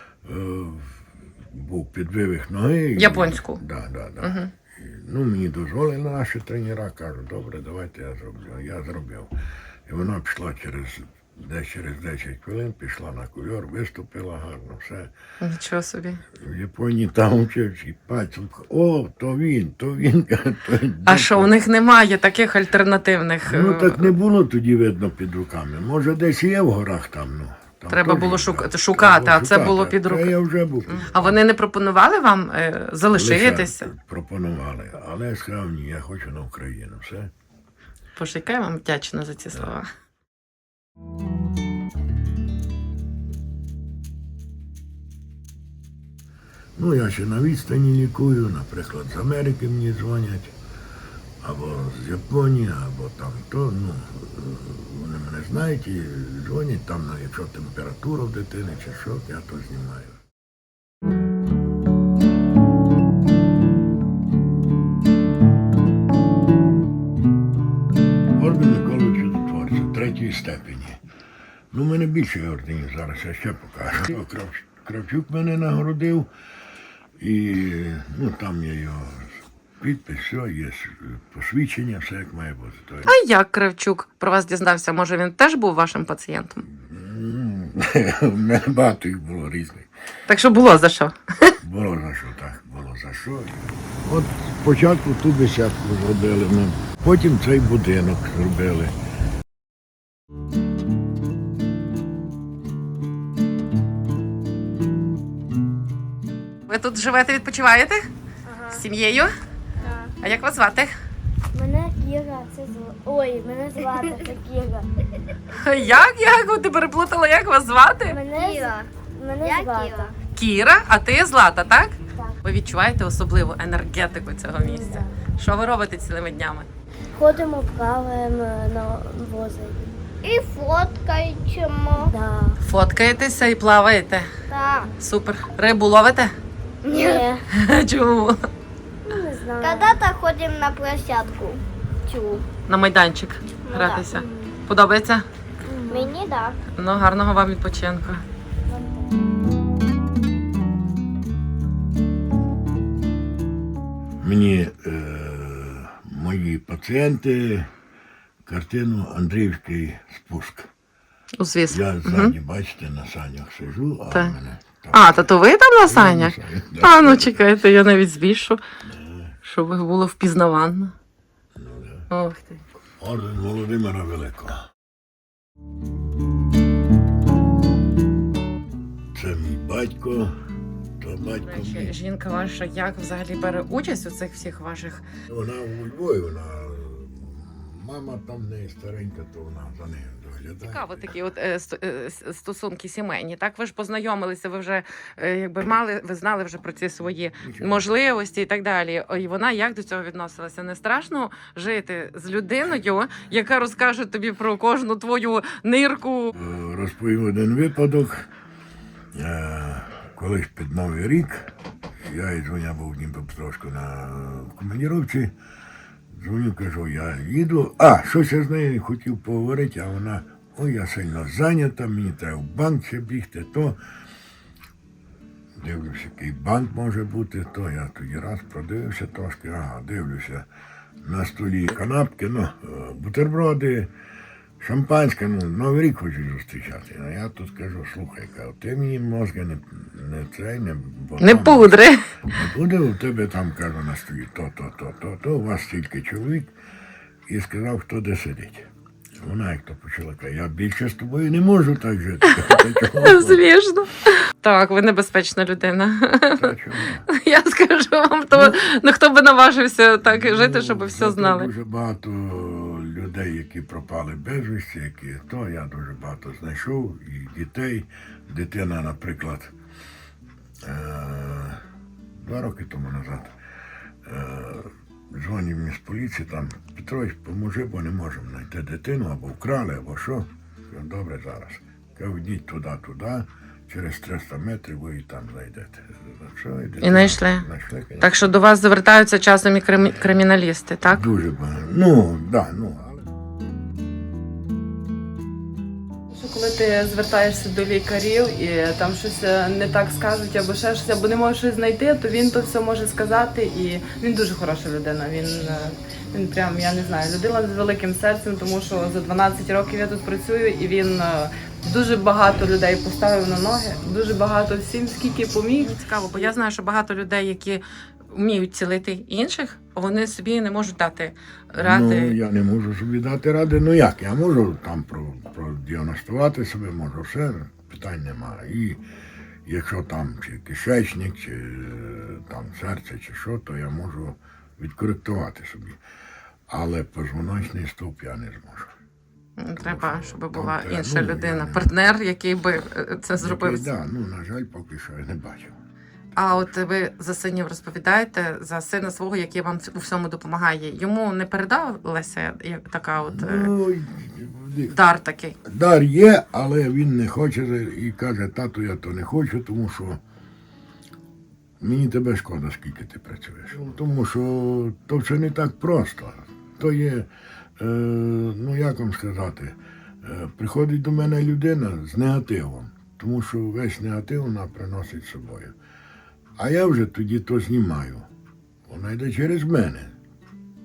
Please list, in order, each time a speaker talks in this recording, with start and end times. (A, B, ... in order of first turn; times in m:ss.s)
0:00.2-0:09.3 A
0:03.0-0:03.6 B
0:04.2-0:04.5 B
0:09.9-0:15.1 A
0:15.4-0:16.2 B
0:16.3-0:21.5 A
0:21.0-0:24.2 B
0:23.4-0:31.4 A
0:27.9-0:30.3 B
0:30.9-0:33.9 B
0:33.1-0:37.3 A
0:38.2-0:39.9 B
0:46.8-0:50.5 A
0:51.4-1:00.2 A
1:08.3-1:11.0 A
1:11.7-1:16.3 A
1:17.2-1:23.1 A
1:23.0-1:26.6 B
1:26.6-1:29.9 A
1:30.3-1:31.6 B
1:31.6-1:38.9 A
1:46.7-1:48.1 B
1:48.4-1:48.8 C
1:48.7-1:49.3 B
1:49.8-1:50.1 C
1:50.2-1:50.9 B
1:51.5-1:54.8 D
1:55.5-1:58.2 B
1:58.0-2:00.1 D
1:58.3-1:58.9 C
1:59.4-2:00.1 C
2:00.3-2:06.7 B
2:04.6-2:05.1 D
2:07.1-2:09.9 D
2:10.2-2:12.1 C
2:12.0-2:12.6 D
2:12.6-2:14.3 B
2:14.5-2:14.9 C
2:15.0-2:16.3 B
2:16.8-2:17.3 C
2:16.9-2:17.4 D
2:17.5-2:18.4 B
2:19.0-2:20.0 D
2:19.6-2:22.4 C
2:22.7-2:25.2 B
2:23.7-2:24.3 C
2:25.7-2:26.1 D
2:25.9-2:26.6 C
2:26.8-2:28.2 B
2:34.2-2:37.7 A
2:38.4-2:40.7 A
2:41.4-2:42.3 B
2:41.7-2:45.3 A
2:44.9-2:48.6 B
2:45.8-2:47.4 A
2:48.8-2:49.3 A
2:49.4-2:50.9 B
2:51.5-2:52.1 A
2:52.1-2:52.6 B
2:53.0-2:54.7 A
2:59.1-3:00.3 A
3:01.0-3:01.9 A
3:01.4-3:05.0 B
3:05.3-3:11.1 A
3:10.6-3:26.3 B
3:17.4-3:17.9 A
3:26.3-3:28.3 A
3:29.1-3:35.3 A
3:36.1-3:43.8 A
3:45.6-3:50.5 A
3:51.0-3:53.9 A
3:54.6-4:06.5 A
4:01.2-4:02.0 B
4:07.3-4:08.7 A
4:09.2-4:13.4 A
4:13.0-4:16.5 B
4:16.4-4:17.1 A
4:17.1-4:21.5 B
4:18.3-4:18.6 A
4:20.0-4:29.5 A
4:30.6-4:31.6 A
4:32.2-4:33.4 A
4:34.0-4:48.1 A
4:46.8-4:47.5 B
4:48.0-4:51.1 B
4:50.9-4:53.1 A
4:56.1-5:15.7 E
5:15.6-5:22.2 B
5:21.6-5:28.8 A
5:29.4-5:35.8 A
5:36.5-5:38.7 A
5:39.4-5:43.7 B
5:39.6-5:41.7 A
5:43.2-5:45.6 A
5:46.1-5:46.5 A
5:46.2-5:53.5 B
5:53.0-5:54.7 A
5:54.7-5:55.4 B
5:55.4-6:00.0 A
6:01.6-6:15.5 A
6:16.4-6:18.0 A
6:18.6-6:19.9 A